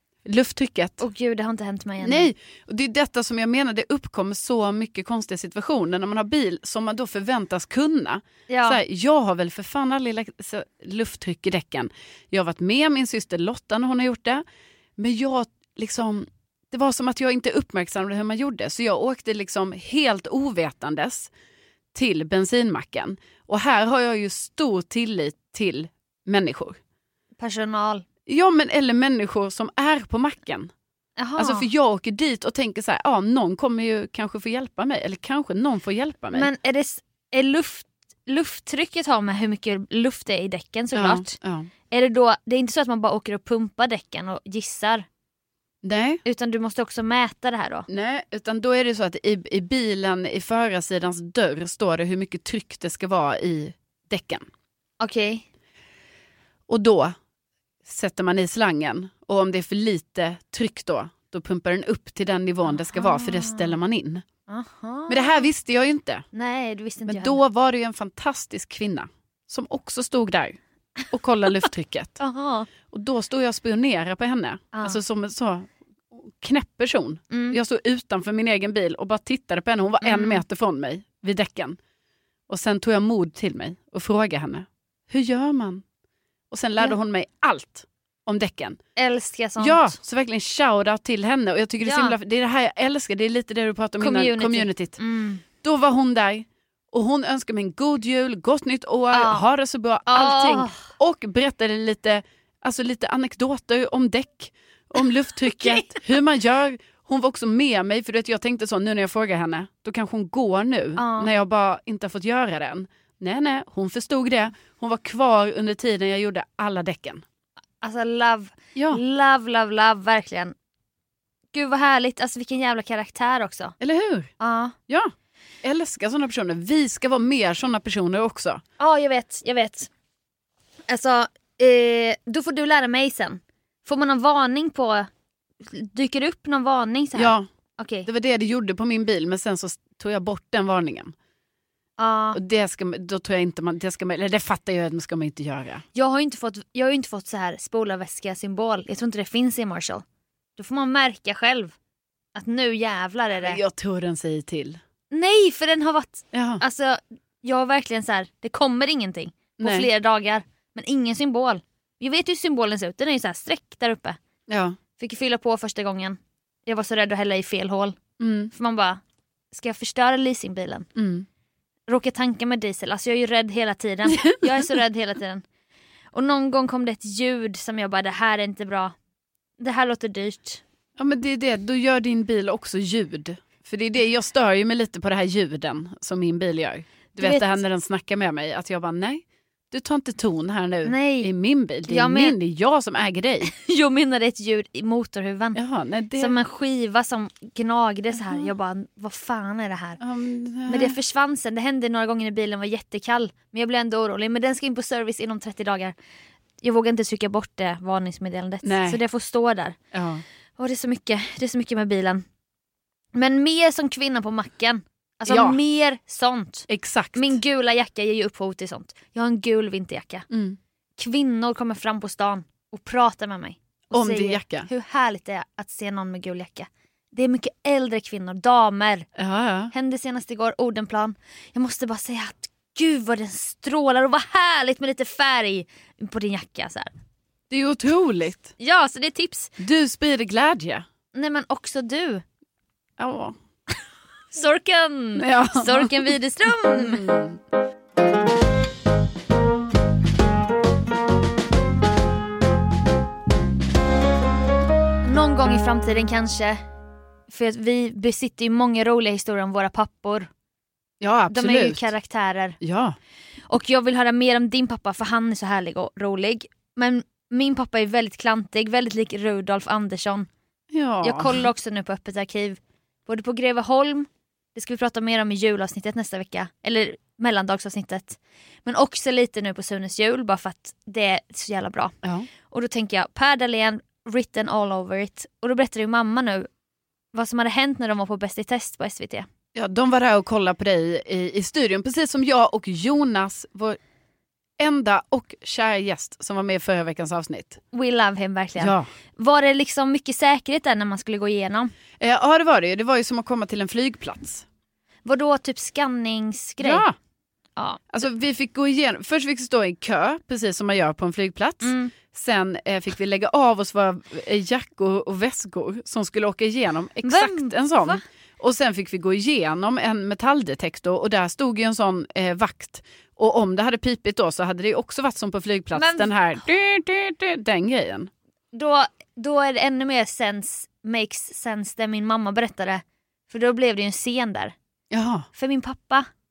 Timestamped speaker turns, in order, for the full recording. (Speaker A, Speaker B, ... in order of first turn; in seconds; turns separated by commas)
Speaker A: 0.2-1.0, Speaker B: 1.0-2.3, Speaker A: 2.0-14.4, Speaker B: 8.5-8.8, Speaker A: 15.0-21.3, Speaker A: 21.9-26.8, Speaker B: 27.4-28.1, Speaker A: 28.3-30.7, Speaker B: 31.2-31.7, Speaker A: 31.4-36.5, Speaker B: 36.3-41.4, Speaker A: 40.9-41.7, Speaker B: 41.9-45.0, Speaker A: 45.8-46.2, Speaker B: 46.2-47.9, Speaker A: 47.9-54.5, Speaker B: 55.0-55.4, Speaker A: 56.7-57.1, Speaker A: 57.9-64.2, Speaker B: 62.7-63.8, Speaker B: 64.5-65.5, Speaker A: 65.1-66.2, Speaker B: 66.3-67.4, Speaker A: 67.0-70.6, Speaker A: 71.1-72.2, Speaker B: 72.2-72.7, Speaker A: 72.9-81.8, Speaker B: 74.7-75.0, Speaker B: 77.3-77.6, Speaker B: 80.0-80.4, Speaker A: 82.5-85.8, Speaker A: 86.5-88.8, Speaker B: 89.0-90.0, Speaker A: 89.6-95.0, Speaker B: 91.8-92.2, Speaker B: 94.0-95.4, Speaker A: 95.6-117.2, Speaker B: 99.1-99.5, Speaker B: 100.1-100.9, Speaker B: 105.6-106.0, Speaker B: 111.0-111.3, Speaker B: 117.8-120.5, Speaker A: 118.8-119.0, Speaker B: 121.5-123.8, Speaker A: 123.8-124.3, Speaker B: 124.4-124.8, Speaker A: 125.6-128.6, Speaker B: 128.8-129.9, Speaker B: 130.9-135.1, Speaker B: 135.7-138.1, Speaker A: 137.2-137.5, Speaker A: 138.1-141.1, Speaker B: 142.0-142.4, Speaker A: 142.3-145.8, Speaker B: 145.9-150.0, Speaker B: 150.6-151.8, Speaker B: 152.3-153.6, Speaker A: 153.4-154.8, Speaker B: 155.1-164.2, Speaker A: 156.3-156.6, Speaker A: 159.6-159.9, Speaker A: 164.5-164.8, Speaker B: 165.0-168.0, Speaker A: 168.2-168.5, Speaker B: 168.5-169.0, Speaker B: 169.5-170.9, Speaker A: 171.0-171.3, Speaker B: 171.9-175.4, Speaker A: 174.1-174.7, Speaker B: 176.1-178.9, Speaker B: 179.6-180.6, Speaker A: 181.0-193.5, Speaker B: 187.2-187.6, Speaker B: 190.8-191.3, Speaker B: 191.9-192.4, Speaker B: 193.4-195.6, Speaker A: 195.6-196.4, Speaker B: 196.2-200.0, Speaker A: 198.2-198.5, Speaker A: 200.0-201.0, Speaker B: 200.7-205.9, Speaker B: 206.6-209.8, Speaker A: 208.6-209.0, Speaker A: 209.9-210.2, Speaker B: 210.6-212.2, Speaker B: 213.2-220.2, Speaker A: 215.3-215.6, Speaker A: 216.7-217.4, Speaker A: 220.3-220.6, Speaker B: 221.0-229.1, Speaker A: 223.9-224.7, Speaker A: 229.2-229.7, Speaker B: 229.7-236.9, Speaker A: 237.5-238.5, Speaker B: 238.6-239.6, Speaker A: 239.6-240.8, Speaker B: 241.1-242.2, Speaker A: 243.0-243.3, Speaker B: 244.3-247.1, Speaker A: 245.2-247.4, Speaker B: 255.0-256.6, Speaker B: 257.3-260.3, Speaker A: 261.0-261.9, Speaker B: 261.3-262.6, Speaker A: 262.6-263.0, Speaker B: 263.5-270.3, Speaker A: 270.7-271.5, Speaker B: 271.0-281.9, Speaker A: 282.0-282.3, Speaker B: 282.5-286.5, Speaker B: 287.1-289.3, Speaker A: 289.6-293.8, Speaker A: 294.6-297.6, Speaker B: 297.7-301.7, Speaker A: 298.6-298.9, Speaker A: 302.0-304.4, Speaker B: 305.1-306.9, Speaker A: 306.6-307.0, Speaker B: 307.6-307.8, Speaker A: 307.9-328.1, Speaker B: 311.6-311.9, Speaker B: 317.0-318.0, Speaker B: 325.7-326.1, Speaker B: 328.5-334.6, Speaker A: 334.9-335.3, Speaker B: 335.4-336.1